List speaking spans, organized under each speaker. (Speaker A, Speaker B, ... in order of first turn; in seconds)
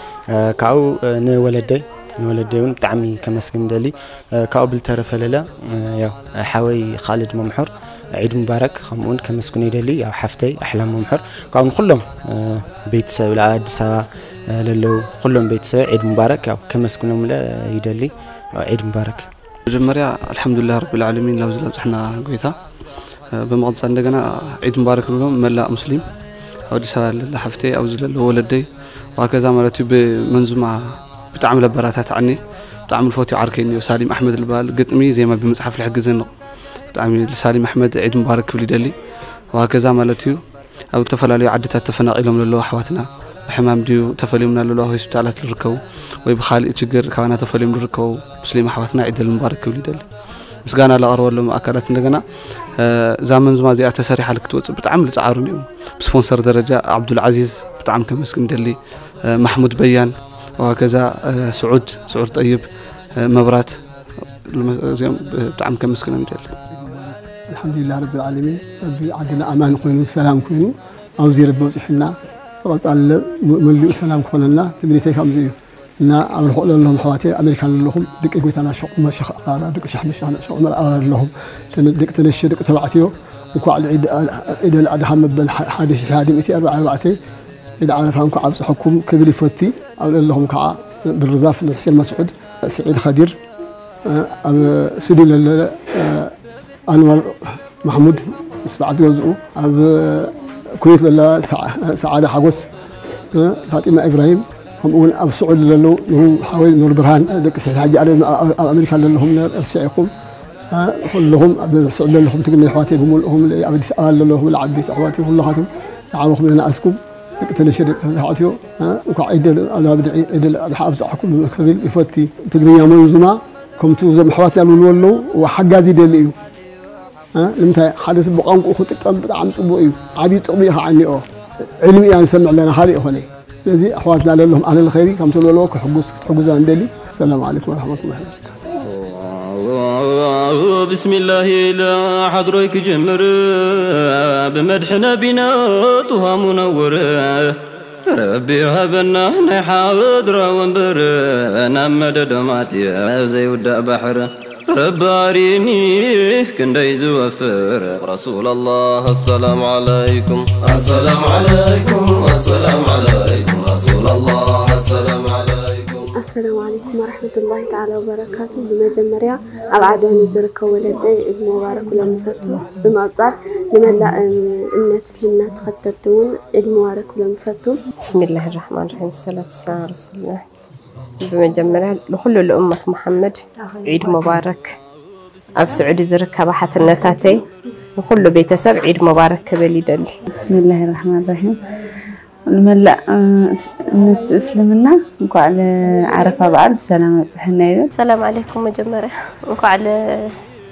Speaker A: 0.3-19.3
Speaker B: 19.7-58.8, 59.3-62.7, 63.2-63.8, 64.5-66.5
Speaker C: 66.7-87.2, 87.8-93.4, 94.0-96.3, 96.9-102.7, 103.3-110.1, 110.7-126.3, 127.3-131.2, 131.8-138.6
Speaker D: 138.8-166.1
Speaker E: 166.2-177.8
Speaker F: 178.0-180.4, 181.2-184.8, 185.6-187.4, 188.0-190.1, 197.9-200.3
Speaker G: 190.3-191.6, 192.5-197.9